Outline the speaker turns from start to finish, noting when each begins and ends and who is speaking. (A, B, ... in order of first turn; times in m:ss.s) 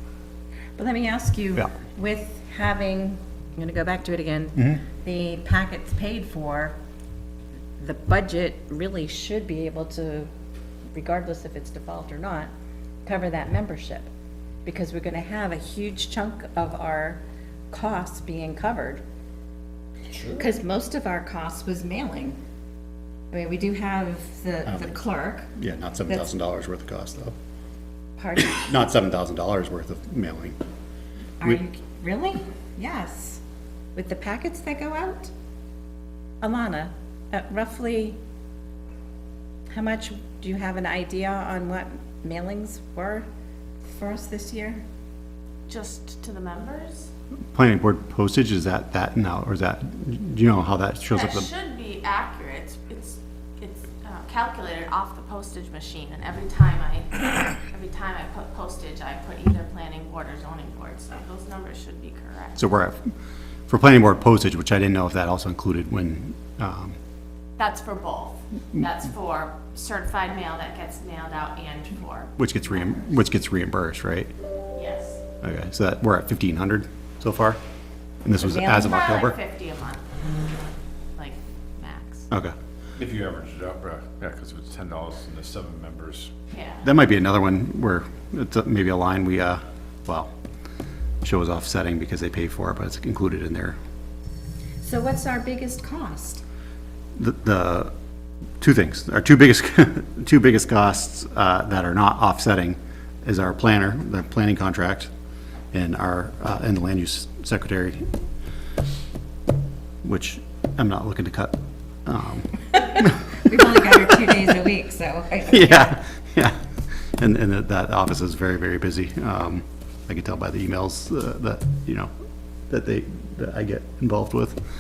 0:00.8-0:06.8 A
0:07.8-0:10.3 A
0:10.9-0:12.5 A
0:13.0-0:14.1 A
0:14.6-0:19.0 A
0:20.1-0:20.4 B
0:20.3-0:22.4 A
0:23.3-0:25.5 A
0:24.7-0:25.0 C
0:25.6-0:27.3 C
0:28.2-0:28.7 A
0:28.5-0:30.6 C
0:31.4-0:33.4 A
0:34.0-0:35.3 A
0:36.4-0:38.2 A
0:39.7-0:43.2 A
0:43.8-0:44.8 A
0:45.7-0:47.1 D
0:47.5-0:51.5 C
0:51.1-1:02.6 D
1:02.6-1:03.1 C
1:03.7-1:07.0 C
1:07.6-1:13.0 D
1:12.4-1:14.3 C
1:14.7-1:15.2 D
1:15.4-1:17.6 C
1:18.2-1:19.4 C
1:18.4-1:20.1 D
1:21.2-1:22.3 D
1:23.0-1:26.3 B
1:26.5-1:26.8 D
1:26.8-1:30.3 C
1:31.2-1:33.8 C
1:34.8-1:36.4 A
1:37.2-1:37.9 C
1:38.6-1:45.1 C
1:45.7-1:48.1 C
1:50.0-1:53.6 C
1:53.4-1:56.0 A
1:55.5-1:56.6 C
1:57.2-2:02.1 C
2:02.7-2:04.6 C